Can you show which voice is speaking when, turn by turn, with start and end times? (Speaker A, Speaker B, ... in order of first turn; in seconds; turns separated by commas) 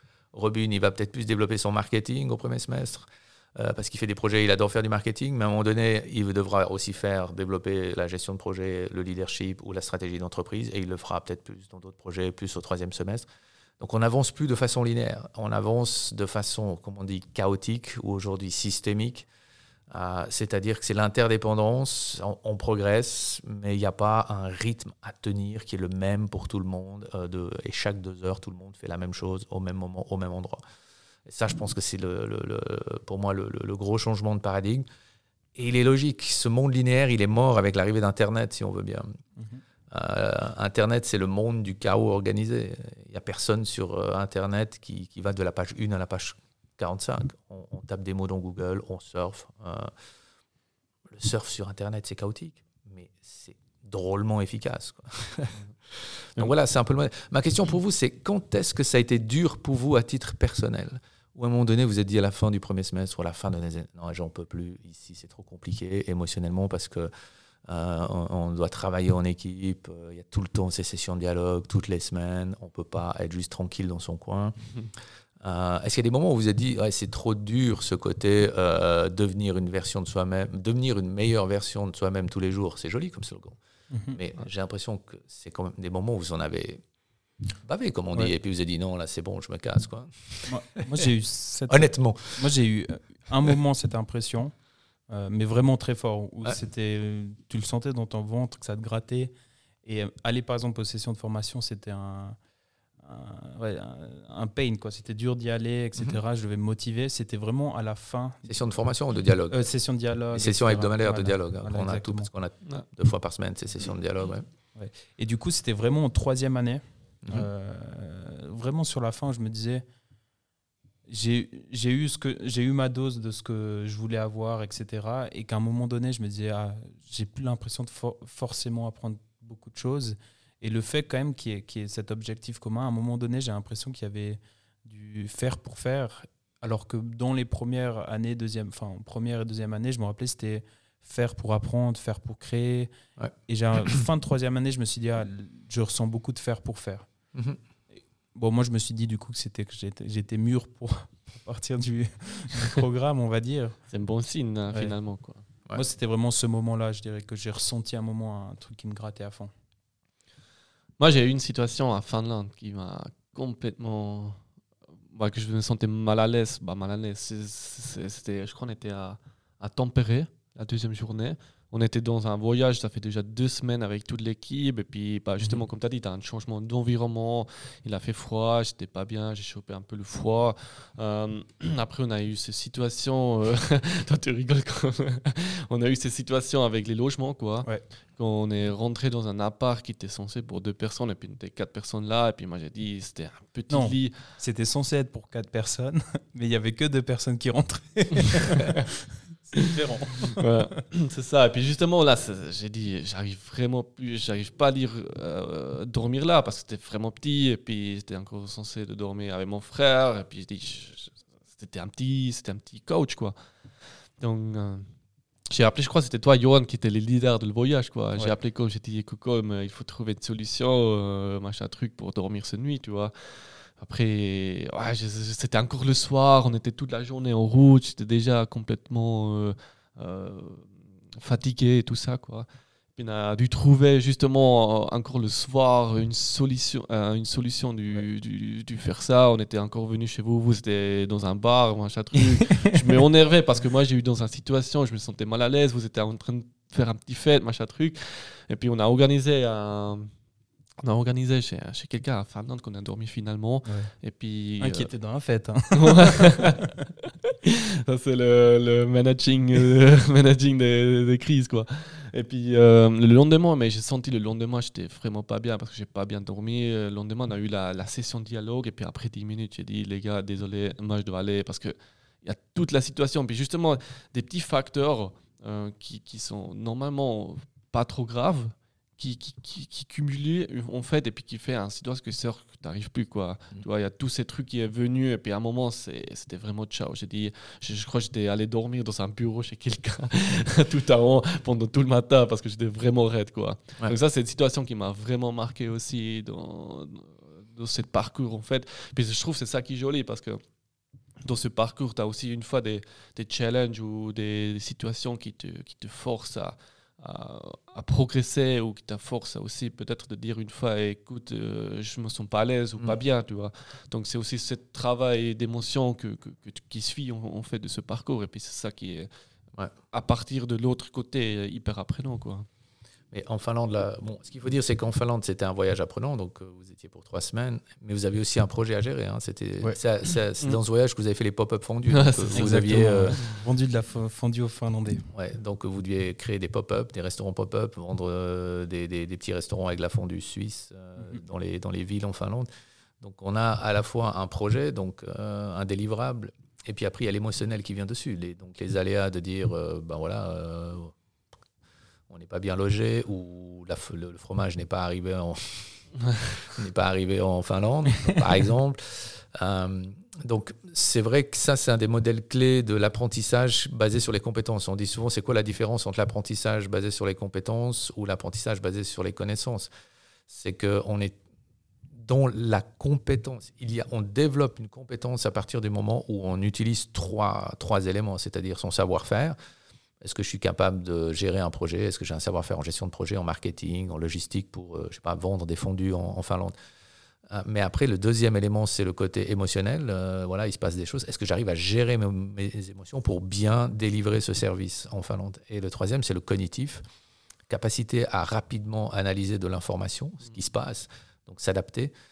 Speaker A: 0.3-13.3, Speaker A: 13.8-19.3, Speaker A: 19.9-30.6, Speaker A: 31.3-34.9, Speaker A: 35.5-39.1, Speaker A: 39.9-49.9, Speaker A: 51.1-67.1, Speaker A: 67.7-74.5, Speaker A: 75.4-83.6, Speaker B: 83.9-84.2, Speaker A: 84.1-86.8, Speaker A: 87.6-90.6, Speaker B: 90.5-94.5, Speaker A: 91.7-92.4, Speaker B: 95.1-99.3, Speaker B: 99.8-102.4, Speaker B: 103.0-108.5, Speaker A: 108.5-109.7, Speaker B: 109.5-112.3, Speaker A: 110.3-114.5, Speaker B: 114.8-119.8, Speaker A: 117.2-117.5, Speaker B: 121.1-142.9, Speaker B: 143.5-147.1, Speaker B: 148.3-153.8, Speaker C: 153.9-155.4, Speaker B: 155.7-159.5, Speaker C: 161.0-164.4, Speaker C: 165.1-194.2, Speaker B: 193.7-198.9, Speaker B: 199.5-200.5, Speaker C: 200.3-213.4, Speaker C: 214.2-214.9, Speaker C: 215.5-250.1, Speaker C: 250.8-254.9, Speaker B: 254.6-256.6, Speaker C: 255.7-256.7, Speaker C: 257.3-300.4, Speaker C: 301.2-319.1, Speaker C: 319.9-322.5, Speaker A: 323.1-333.2, Speaker C: 331.9-332.7, Speaker B: 332.4-335.1, Speaker A: 335.1-342.5, Speaker A: 343.0-350.9, Speaker A: 352.1-355.8, Speaker A: 356.3-369.7, Speaker A: 370.3-371.2, Speaker A: 371.9-379.4, Speaker A: 380.0-386.5, Speaker A: 387.3-396.8, Speaker A: 397.5-401.9